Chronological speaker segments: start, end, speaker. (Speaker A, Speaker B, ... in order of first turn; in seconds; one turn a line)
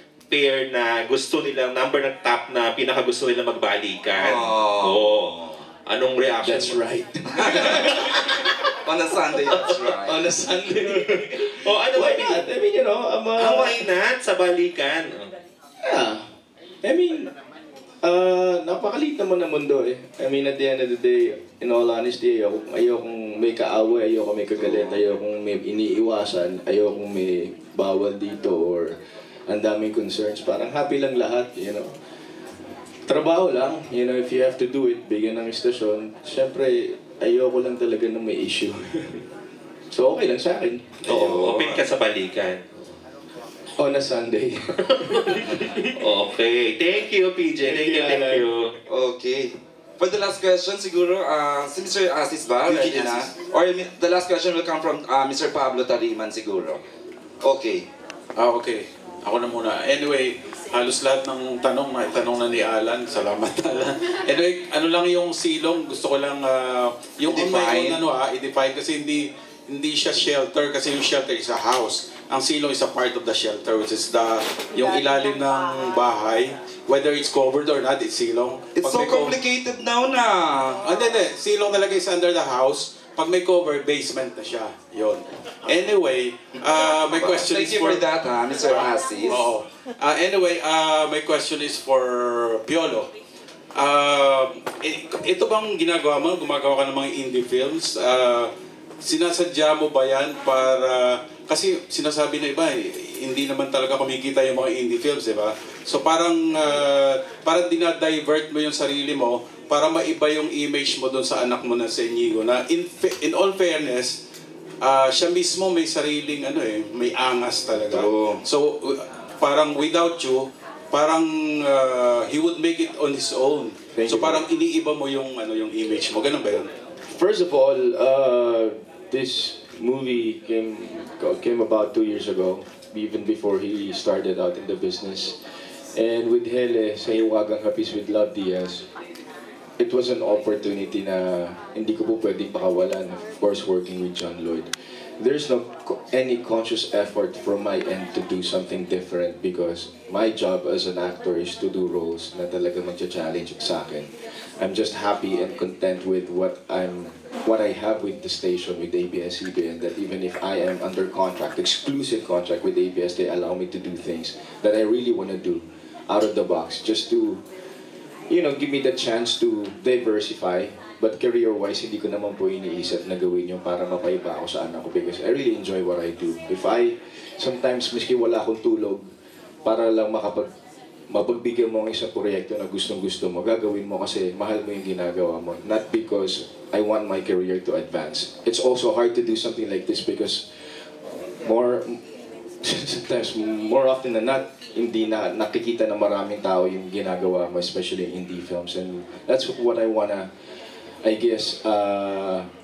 Speaker A: 0.3-6.8
Speaker B: 4.2-5.5
Speaker C: 6.4-13.9
Speaker B: 7.4-7.9
Speaker B: 8.8-10.2
Speaker A: 10.9-12.4
Speaker A: 13.4-15.3
Speaker C: 15.8-16.3
Speaker C: 16.8-17.3
Speaker C: 18.0-28.9
Speaker A: 24.6-24.9
Speaker C: 29.5-31.9
Speaker C: 33.1-39.2
Speaker C: 39.9-41.3
Speaker A: 41.1-42.6
Speaker B: 41.1-41.8
Speaker C: 43.8-45.6
Speaker A: 45.2-48.7
Speaker C: 47.6-48.5
Speaker B: 48.9-56.8
Speaker D: 52.7-53.3
Speaker B: 57.4-57.9
Speaker D: 58.4-79.4
Speaker B: 67.3-68.0
Speaker B: 78.8-80.8
Speaker D: 80.8-88.0
Speaker B: 87.2-89.5
Speaker D: 88.7-93.1
Speaker D: 93.8-98.5
Speaker D: 99.0-114.2
Speaker D: 114.8-126.7
Speaker B: 117.8-118.4
Speaker C: 124.0-124.4
Speaker C: 127.1-135.4
Speaker C: 135.9-138.8
Speaker C: 139.8-144.7
Speaker C: 145.2-167.4
Speaker C: 168.3-179.1
Speaker C: 179.7-180.5
Speaker C: 181.1-190.5
Speaker C: 191.4-192.0
Speaker C: 192.6-200.3
Speaker C: 201.0-202.5